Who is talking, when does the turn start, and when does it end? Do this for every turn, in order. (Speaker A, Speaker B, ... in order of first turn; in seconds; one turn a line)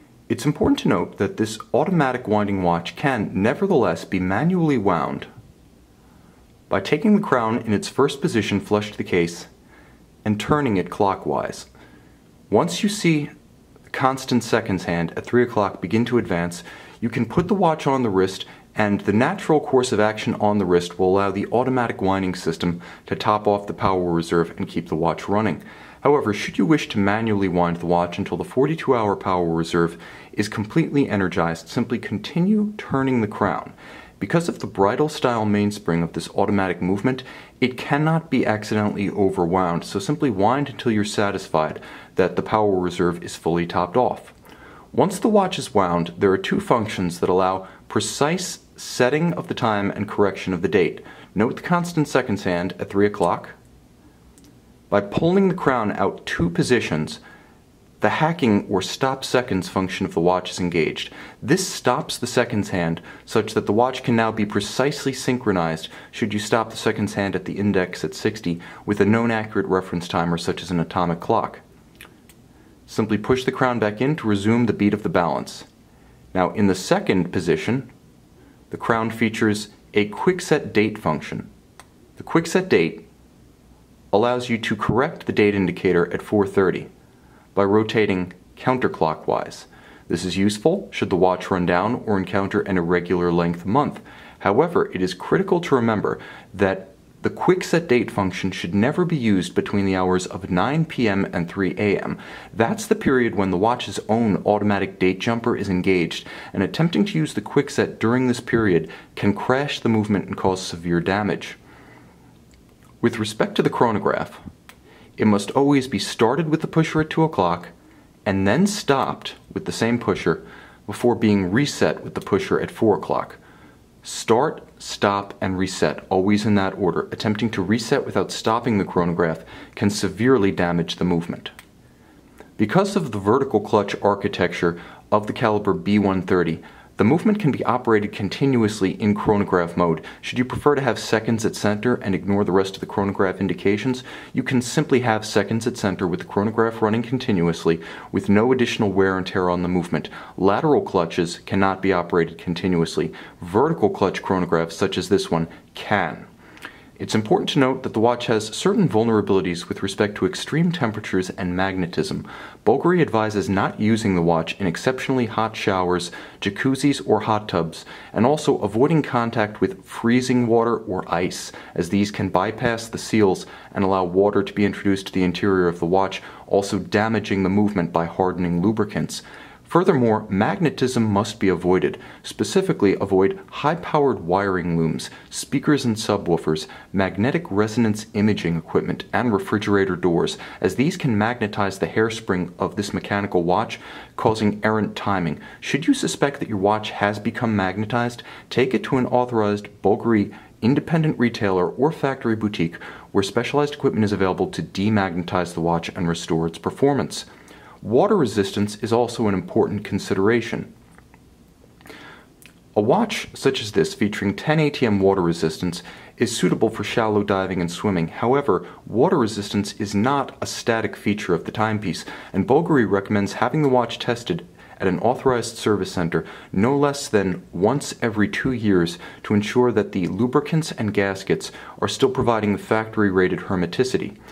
Speaker A: 0.3-5.3
Speaker A: 6.7-9.5
Speaker A: 10.2-11.7
Speaker A: 12.5-13.3
Speaker A: 13.9-44.4
Speaker A: 44.9-53.6
Speaker A: 54.9-57.2
Speaker A: 58.0-71.6
Speaker A: 72.9-75.7
Speaker A: 76.3-77.9
Speaker A: 78.7-81.5
Speaker A: 82.2-83.1
Speaker A: 84.1-86.9
Speaker A: 87.5-111.6
Speaker A: 113.0-114.4
Speaker A: 115.2-117.7
Speaker A: 118.3-123.4
Speaker A: 124.0-131.5
Speaker A: 132.6-156.3
Speaker A: 157.0-207.3
Speaker A: 207.8-210.7
Speaker A: 212.8-234.2